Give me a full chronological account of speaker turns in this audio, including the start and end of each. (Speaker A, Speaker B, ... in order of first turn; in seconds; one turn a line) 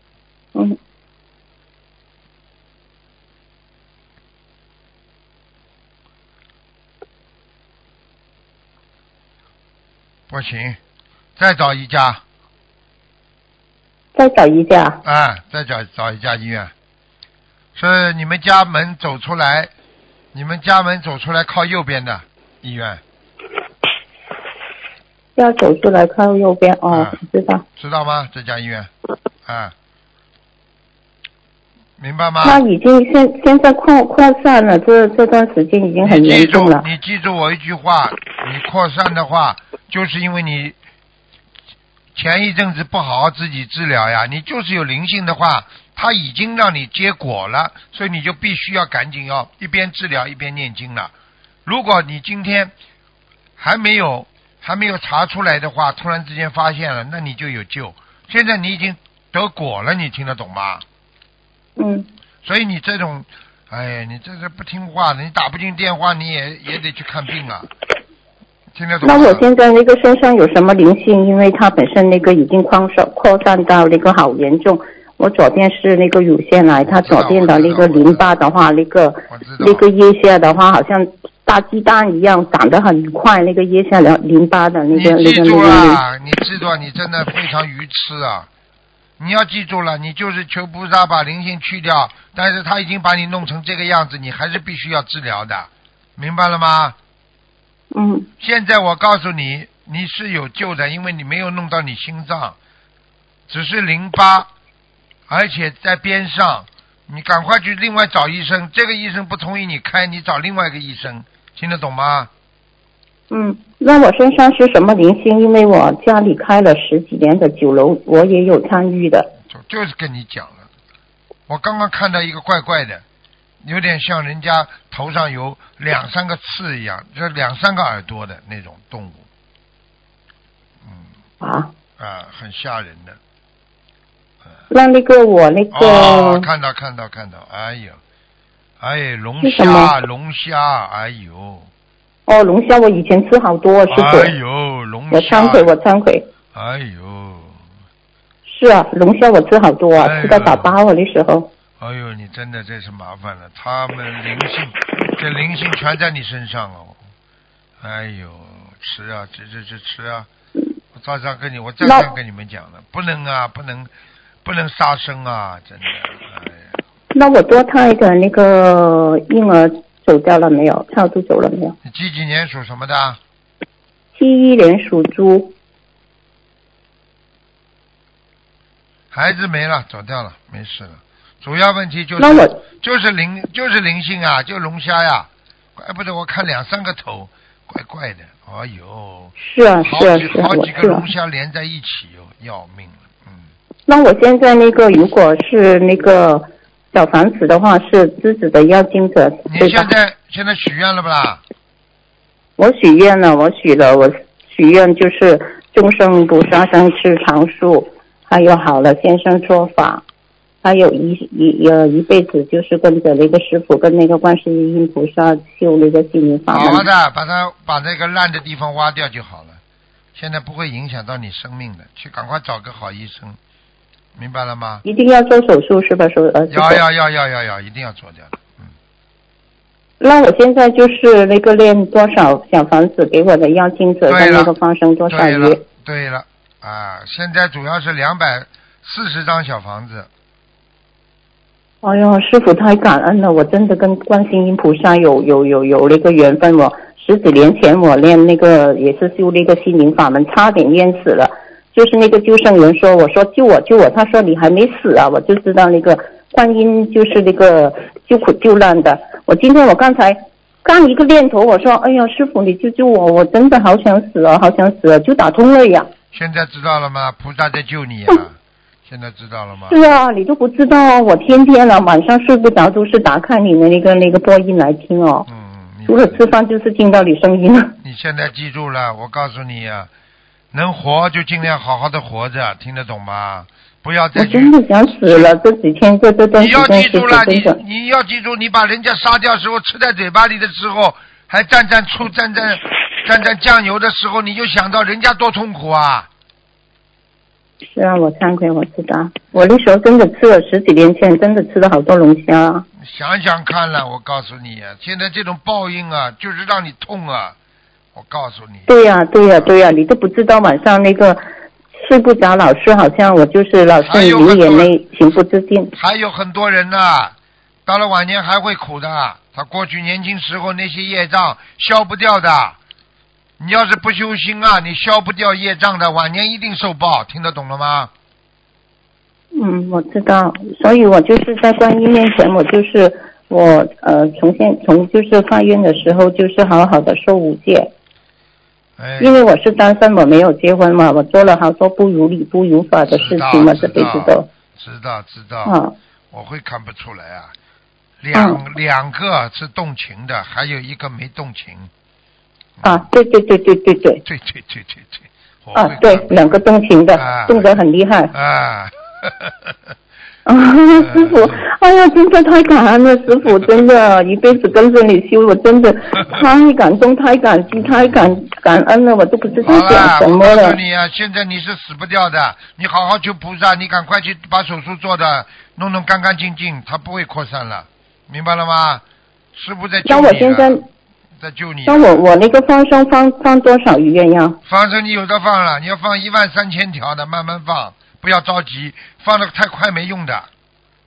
Speaker A: 10.3-10.8
Speaker A: 11.4-12.2
Speaker B: 14.1-15.0
Speaker A: 15.0-16.7
Speaker A: 17.7-19.7
Speaker A: 20.3-23.0
Speaker B: 25.4-27.6
Speaker A: 26.9-27.1
Speaker A: 27.8-28.9
Speaker A: 29.4-29.7
Speaker A: 32.0-32.6
Speaker B: 32.4-36.9
Speaker A: 36.0-40.8
Speaker A: 42.1-51.1
Speaker A: 51.6-52.7
Speaker A: 53.6-60.8
Speaker B: 61.8-62.1
Speaker A: 62.4-67.7
Speaker A: 68.7-69.5
Speaker B: 69.0-86.0
Speaker A: 77.0-78.3
Speaker A: 79.3-79.8
Speaker A: 84.9-88.5
Speaker A: 89.2-97.0
Speaker B: 97.9-98.3
Speaker A: 98.4-102.5
Speaker A: 103.5-104.5
Speaker A: 105.3-112.3
Speaker B: 113.3-119.3
Speaker A: 119.5-120.7
Speaker A: 121.5-123.0
Speaker A: 123.6-129.2
Speaker B: 131.4-131.7
Speaker A: 132.0-133.2
Speaker B: 134.7-136.5
Speaker A: 135.7-138.0
Speaker A: 138.8-141.7
Speaker B: 139.4-139.9
Speaker B: 142.3-144.3
Speaker A: 143.9-145.7
Speaker B: 145.1-146.3
Speaker A: 146.5-147.6
Speaker B: 148.4-151.5
Speaker A: 150.0-150.8
Speaker A: 151.8-157.0
Speaker A: 157.8-160.3
Speaker A: 160.9-163.9
Speaker B: 161.8-162.1
Speaker A: 164.4-166.6
Speaker B: 167.1-171.7
Speaker A: 171.8-173.2
Speaker B: 174.1-175.5
Speaker A: 179.1-193.5
Speaker B: 182.2-182.6
Speaker B: 189.4-191.1
Speaker B: 193.9-199.9
Speaker A: 199.5-201.4
Speaker B: 202.6-210.0
Speaker B: 210.6-216.9
Speaker A: 216.5-219.6
Speaker A: 220.1-223.4
Speaker A: 224.2-224.8
Speaker B: 224.8-226.8
Speaker A: 226.5-228.7
Speaker B: 230.0-235.6
Speaker A: 234.1-234.5
Speaker A: 235.1-240.1
Speaker B: 241.8-265.9
Speaker A: 266.1-269.8
Speaker B: 269.7-275.3
Speaker A: 275.3-276.2
Speaker B: 275.9-277.7
Speaker A: 277.8-279.9
Speaker A: 280.5-285.3
Speaker B: 284.1-287.6
Speaker A: 286.4-296.1
Speaker B: 297.7-302.6
Speaker A: 302.8-307.4
Speaker A: 307.9-308.7
Speaker B: 308.7-311.2
Speaker B: 311.7-315.7
Speaker A: 313.8-314.7
Speaker A: 315.7-322.6
Speaker A: 323.4-327.9
Speaker B: 329.3-337.7
Speaker A: 338.8-339.2
Speaker B: 339.0-344.3
Speaker A: 342.9-345.6
Speaker B: 345.4-345.7
Speaker A: 346.1-347.3
Speaker A: 348.0-351.7
Speaker B: 348.1-348.4
Speaker A: 352.6-352.9
Speaker B: 352.6-354.0
Speaker A: 354.0-356.4
Speaker B: 355.5-358.1
Speaker A: 356.9-357.6
Speaker A: 358.1-359.6
Speaker B: 360.2-370.6
Speaker A: 360.7-361.4
Speaker A: 369.4-378.8
Speaker A: 379.3-380.6
Speaker B: 379.8-380.6
Speaker A: 381.2-382.4
Speaker B: 381.6-384.4
Speaker A: 384.4-390.3